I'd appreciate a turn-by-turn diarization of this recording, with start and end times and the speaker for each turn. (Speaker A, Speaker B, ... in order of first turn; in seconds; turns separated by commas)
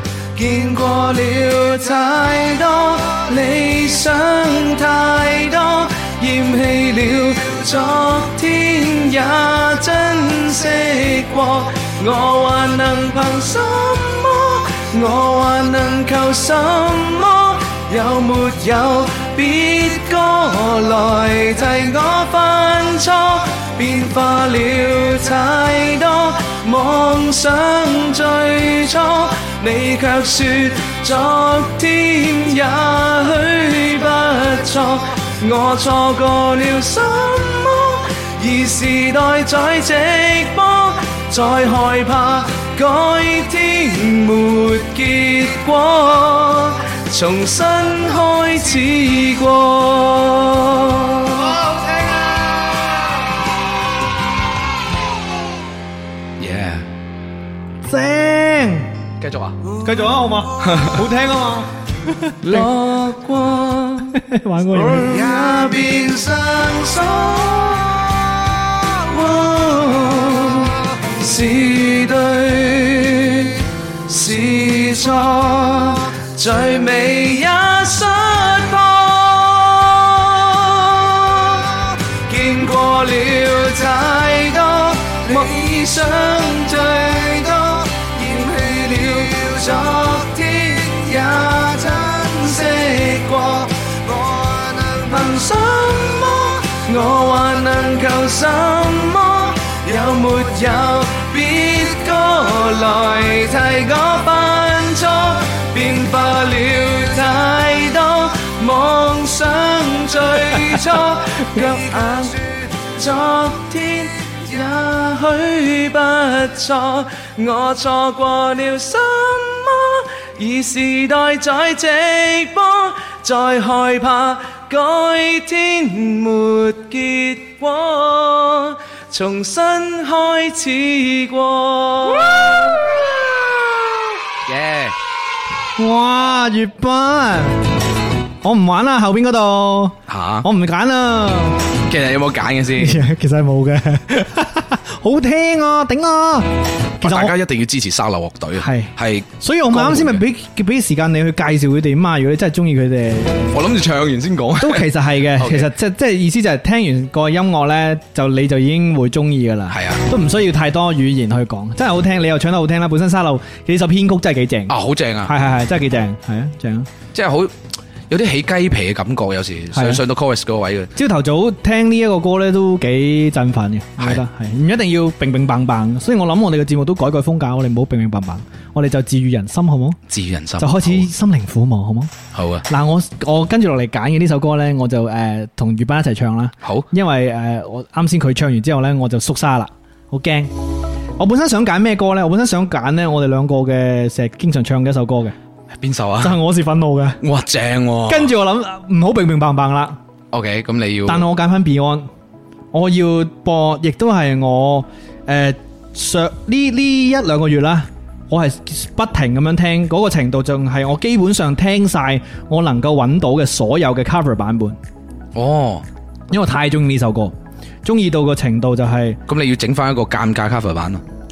Speaker A: 0.3-51.5, Speaker B: 51.3-53.2, Speaker C: 56.4-56.9, Speaker B: 57.9-58.9, Speaker C: 59.2-59.6, Speaker B: 59.8-62.7, Speaker C: 60.6-61.0, Speaker A: 62.5-64.2, Speaker B: 64.1-65.3, Speaker A: 64.9-132.4, Speaker C: 134.5-135.0, Speaker B: 135.8-137.6, Speaker B: 138.4-141.6, Speaker C: 140.1-140.5, Speaker C: 141.8-143.0, Speaker B: 142.8-147.4, Speaker C: 147.0-150.2, Speaker B: 148.6-153.5, Speaker C: 153.5-155.7, Speaker B: 154.6-166.9, Speaker C: 159.7-160.0, Speaker C: 164.7-165.3, Speaker C: 167.1-167.5, Speaker C: 168.1-170.9, Speaker B: 169.7-170.0, Speaker B: 171.0-180.0, Speaker C: 180.1-181.1, Speaker B: 180.6-182.1, Speaker C: 182.3-182.7, Speaker B: 182.7-190.5, Speaker B: 191.2-195.4, Speaker C: 195.8-196.4, Speaker B: 196.2-197.2, Speaker C: 197.2-198.3, Speaker B: 198.1-200.0, Speaker C: 200.3-201.3, Speaker B: 201.1-202.1, Speaker B: 202.7-214.8, Speaker C: 215.3-215.9, Speaker B: 216.3-219.2, Speaker C: 219.3-221.0